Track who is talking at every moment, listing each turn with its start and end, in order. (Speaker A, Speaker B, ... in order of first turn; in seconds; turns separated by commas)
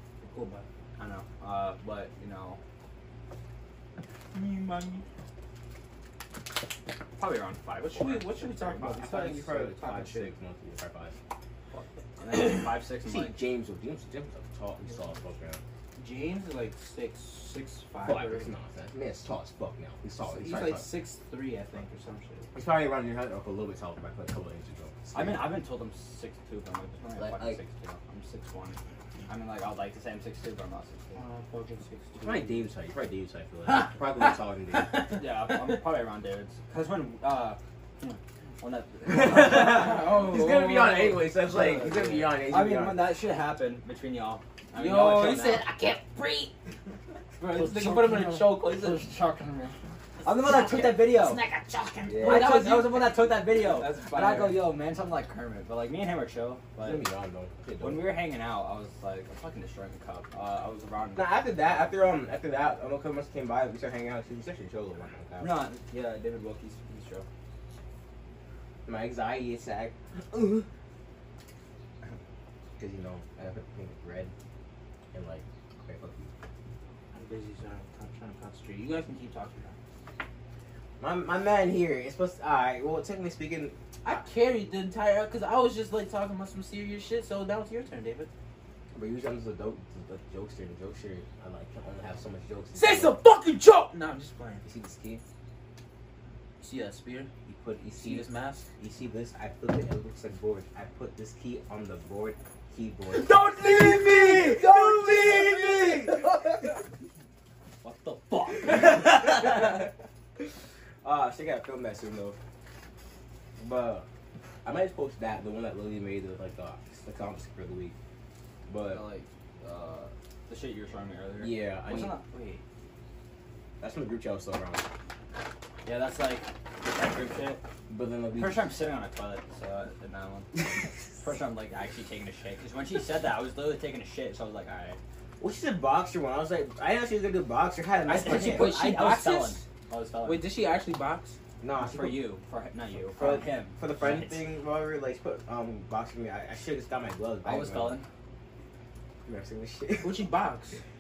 Speaker A: 0.2-0.6, Speaker B: 1.0-2.6, Speaker B: 4.3-5.0, Speaker A: 4.6-4.9, Speaker B: 7.2-8.9, Speaker A: 7.8-10.3, Speaker C: 8.8-11.1, Speaker B: 11.7-13.3, Speaker C: 13.1-15.6, Speaker A: 16.0-18.5, Speaker C: 18.0-20.9, Speaker A: 20.2-22.5, Speaker C: 22.5-25.5, Speaker B: 25.1-31.2, Speaker C: 27.2-27.6, Speaker A: 31.1-32.6, Speaker C: 32.2-35.1, Speaker A: 33.7-35.8, Speaker B: 35.1-40.1, Speaker C: 39.0-43.1, Speaker A: 39.5-41.3, Speaker B: 41.4-45.6, Speaker A: 44.7-46.5, Speaker A: 47.4-49.0, Speaker B: 47.5-51.4, Speaker A: 50.2-54.7, Speaker C: 52.0-52.7, Speaker B: 52.2-57.0, Speaker C: 56.8-58.2, Speaker B: 57.8-61.3, Speaker C: 61.1-65.6, Speaker B: 65.4-67.2, Speaker C: 68.8-70.7, Speaker C: 72.8-74.3, Speaker C: 75.1-76.3, Speaker A: 77.1-79.7, Speaker C: 81.0-83.8, Speaker A: 84.0-88.3, Speaker C: 88.9-93.2, Speaker A: 92.8-94.6, Speaker C: 94.6-95.2, Speaker A: 96.6-97.3, Speaker C: 97.5-98.2, Speaker A: 98.0-98.7, Speaker C: 98.8-106.2, Speaker A: 103.1-106.5, Speaker B: 107.8-109.0, Speaker C: 108.5-110.5, Speaker C: 111.0-112.4, Speaker C: 113.6-114.0, Speaker C: 114.6-117.9, Speaker C: 118.7-119.0, Speaker B: 118.8-122.6, Speaker C: 121.4-122.1, Speaker C: 123.8-124.8, Speaker B: 125.8-127.6, Speaker C: 127.9-128.6, Speaker B: 128.3-130.6, Speaker B: 131.2-135.0, Speaker C: 135.4-138.8, Speaker B: 138.1-140.5, Speaker A: 138.2-139.6, Speaker A: 140.2-141.4, Speaker C: 141.6-142.3, Speaker B: 141.8-144.4, Speaker C: 143.1-148.0, Speaker B: 147.4-148.0, Speaker C: 149.2-150.2, Speaker A: 150.0-150.8